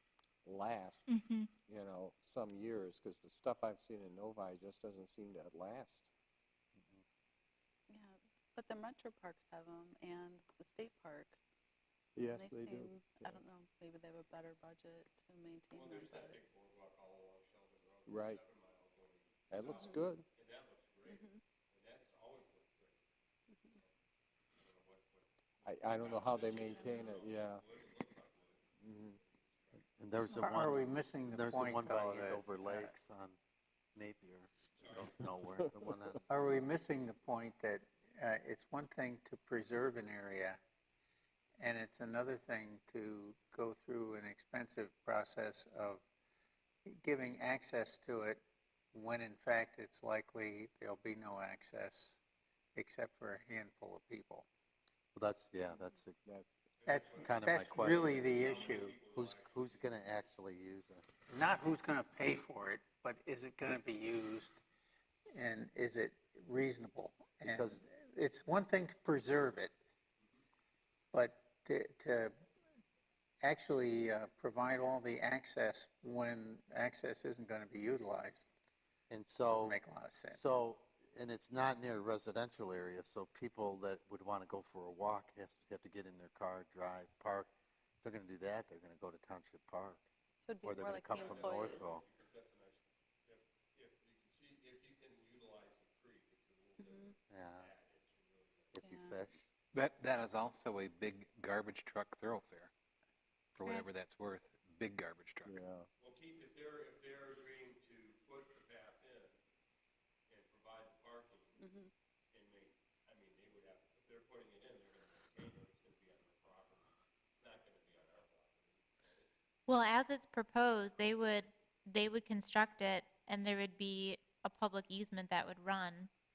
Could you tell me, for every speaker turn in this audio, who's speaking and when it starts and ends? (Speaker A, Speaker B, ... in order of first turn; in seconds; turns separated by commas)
Speaker A: 0.5-6.1, Speaker B: 1.1-1.5, Speaker C: 6.8-7.0, Speaker D: 7.9-11.4, Speaker A: 12.2-13.4, Speaker D: 12.3-16.4, Speaker E: 15.7-23.0, Speaker A: 18.1-18.4, Speaker A: 19.5-20.2, Speaker D: 21.1-21.4, Speaker E: 24.6-29.9, Speaker A: 25.6-27.6, Speaker D: 26.7-27.1, Speaker A: 28.8-29.2, Speaker C: 30.0-33.4, Speaker F: 30.4-32.9, Speaker C: 34.0-36.3, Speaker E: 34.8-35.2, Speaker F: 36.3-40.6, Speaker F: 41.6-46.0, Speaker F: 46.9-48.4, Speaker F: 48.9-52.2, Speaker F: 52.8-54.5, Speaker C: 55.1-56.3, Speaker A: 56.3-56.5, Speaker E: 56.8-60.4, Speaker F: 56.9-59.0, Speaker C: 57.1-58.1, Speaker C: 59.0-61.0, Speaker F: 61.3-64.6, Speaker F: 65.3-69.7, Speaker C: 67.4-67.8, Speaker F: 71.1-72.3, Speaker F: 73.4-78.4, Speaker C: 79.1-79.8, Speaker F: 79.5-80.5, Speaker C: 80.3-87.5, Speaker C: 88.0-90.1, Speaker D: 90.4-92.0, Speaker C: 90.6-92.0, Speaker E: 91.1-98.9, Speaker D: 96.8-97.1, Speaker C: 97.3-97.7, Speaker C: 98.7-99.4, Speaker D: 98.8-99.2, Speaker G: 99.7-102.7, Speaker G: 103.6-105.6, Speaker B: 103.6-103.9, Speaker A: 105.5-105.9, Speaker E: 106.0-109.4, Speaker E: 110.3-111.7, Speaker D: 111.6-111.9, Speaker E: 112.3-119.3, Speaker B: 119.7-126.1